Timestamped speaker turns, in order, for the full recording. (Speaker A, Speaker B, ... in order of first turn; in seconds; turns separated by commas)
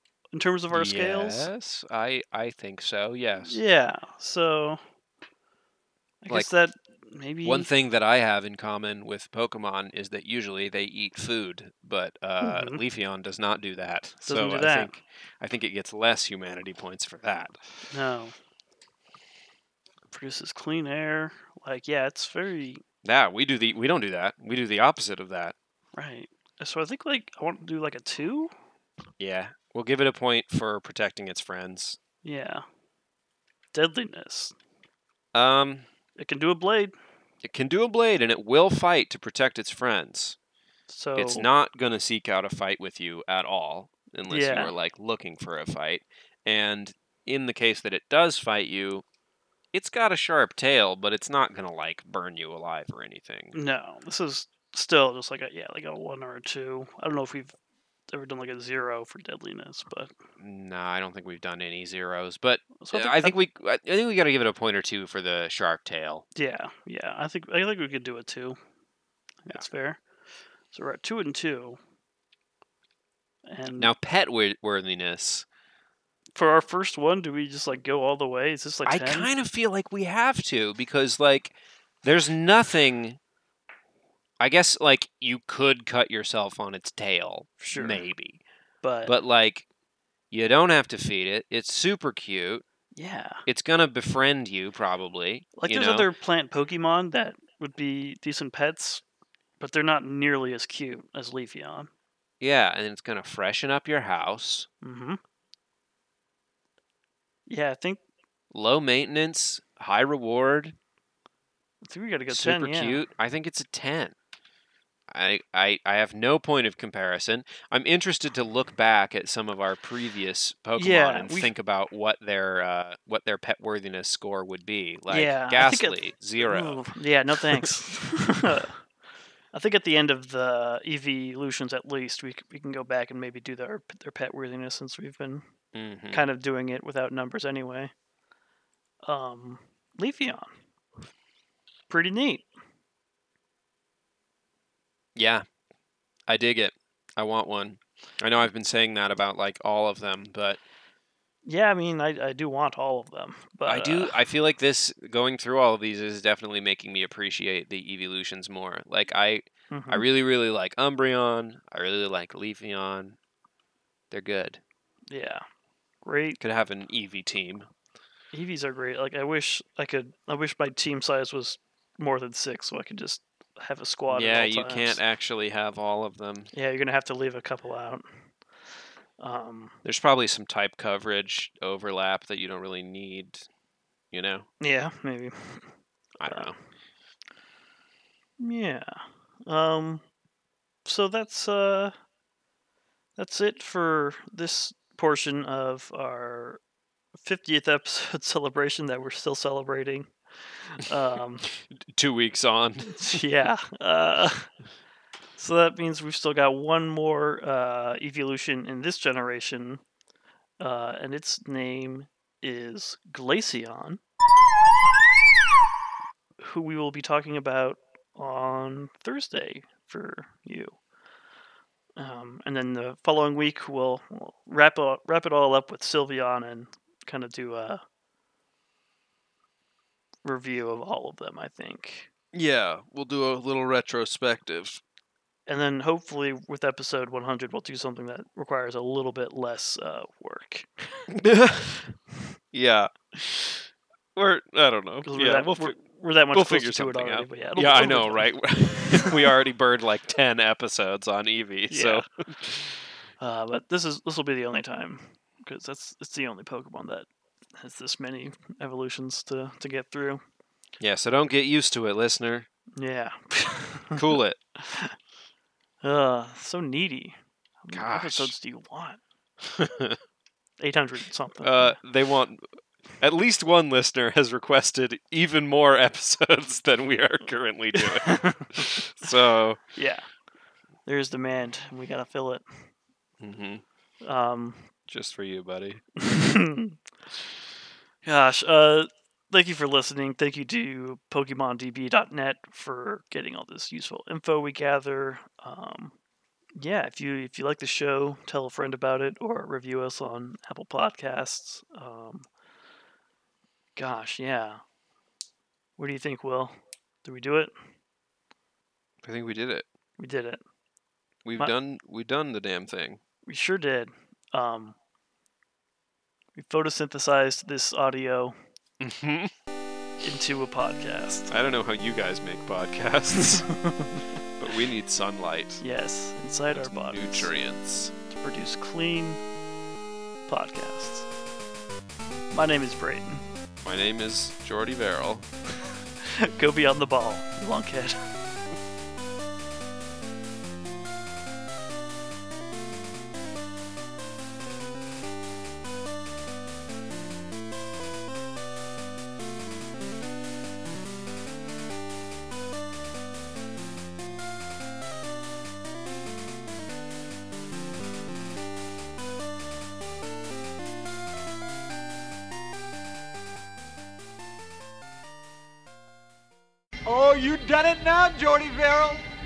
Speaker A: 0.3-1.5, Speaker B: 0.7-3.6, Speaker A: 3.4-4.8, Speaker A: 6.2-7.7, Speaker B: 7.4-17.6, Speaker A: 12.4-12.8, Speaker A: 14.2-14.9, Speaker A: 17.9-18.3, Speaker A: 20.1-22.8, Speaker B: 23.0-25.5, Speaker A: 25.9-28.5, Speaker B: 29.2-32.0, Speaker A: 32.2-32.6, Speaker A: 33.7-34.5, Speaker B: 35.3-35.9, Speaker A: 36.2-36.9, Speaker B: 37.4-40.4, Speaker A: 40.9-41.5, Speaker B: 41.1-49.0, Speaker A: 44.3-44.7, Speaker B: 49.7-53.5, Speaker A: 53.5-57.5, Speaker A: 58.1-60.1, Speaker B: 60.4-66.2, Speaker A: 62.8-63.4, Speaker A: 66.3-68.6, Speaker A: 69.4-70.0, Speaker A: 70.7-71.8, Speaker A: 73.5-73.9, Speaker B: 73.8-75.5, Speaker A: 76.3-79.3, Speaker B: 78.8-83.2, Speaker B: 84.4-88.4, Speaker A: 87.6-88.1, Speaker A: 88.8-89.1, Speaker B: 89.0-89.7, Speaker B: 90.3-92.6, Speaker A: 93.0-93.4, Speaker B: 93.5-96.1, Speaker A: 95.5-99.0, Speaker A: 99.6-101.9, Speaker B: 102.4-104.7, Speaker A: 104.8-105.2, Speaker A: 107.5-108.0, Speaker B: 108.5-110.8, Speaker A: 111.8-113.0, Speaker B: 112.3-114.1, Speaker B: 115.1-126.8, Speaker A: 120.8-121.5, Speaker A: 125.1-128.8, Speaker B: 127.4-127.7, Speaker A: 129.5-135.4, Speaker B: 135.7-136.2, Speaker A: 136.1-137.9, Speaker A: 139.0-140.5, Speaker A: 141.9-142.5, Speaker B: 145.1-145.4, Speaker B: 146.3-150.6, Speaker A: 151.4-154.1, Speaker B: 153.7-163.2, Speaker A: 159.7-160.0, Speaker B: 164.1-164.6, Speaker A: 165.1-165.4, Speaker A: 166.0-166.4, Speaker B: 166.4-167.7, Speaker A: 168.3-175.0, Speaker B: 174.1-176.5, Speaker A: 176.5-178.0, Speaker A: 179.2-179.8, Speaker B: 179.8-183.4, Speaker B: 184.1-184.5, Speaker A: 184.6-185.7, Speaker B: 186.2-186.6, Speaker A: 186.2-186.5, Speaker A: 188.4-190.0, Speaker A: 190.8-191.9, Speaker A: 193.2-196.6, Speaker A: 197.2-201.5, Speaker B: 201.7-203.0, Speaker A: 202.9-204.5, Speaker A: 205.4-209.8, Speaker A: 210.6-214.0, Speaker A: 216.4-220.8, Speaker A: 222.0-227.8, Speaker A: 230.2-232.1, Speaker B: 232.3-234.8, Speaker A: 235.5-241.1, Speaker B: 241.1-241.9, Speaker B: 242.5-245.8, Speaker A: 245.0-248.3, Speaker B: 246.3-252.8, Speaker A: 248.9-249.3, Speaker A: 251.7-252.0, Speaker A: 253.2-257.1, Speaker A: 257.6-260.2, Speaker B: 260.8-262.5, Speaker A: 262.8-264.9, Speaker B: 263.9-264.4, Speaker A: 265.8-269.0, Speaker B: 267.7-268.3, Speaker B: 269.4-270.0, Speaker A: 270.6-271.8, Speaker B: 271.4-272.4, Speaker B: 273.0-279.6, Speaker A: 277.8-278.7, Speaker A: 279.7-280.1, Speaker A: 280.9-282.4, Speaker B: 283.2-283.6, Speaker A: 284.0-284.7, Speaker B: 284.9-285.8, Speaker A: 286.0-286.8, Speaker A: 288.0-295.9, Speaker A: 296.6-302.3, Speaker A: 303.8-304.6, Speaker A: 305.8-307.5, Speaker B: 309.0-309.6, Speaker A: 310.0-310.4, Speaker B: 311.2-313.0, Speaker A: 313.3-314.8, Speaker A: 316.4-318.3, Speaker B: 318.8-319.3, Speaker A: 320.0-321.3, Speaker B: 321.3-323.5, Speaker A: 323.4-324.0, Speaker B: 324.4-325.6, Speaker A: 325.6-327.3, Speaker B: 326.5-327.9, Speaker A: 328.1-329.2, Speaker A: 330.3-331.1, Speaker A: 332.3-333.2, Speaker B: 333.6-335.3, Speaker A: 336.0-338.1, Speaker C: 366.8-369.0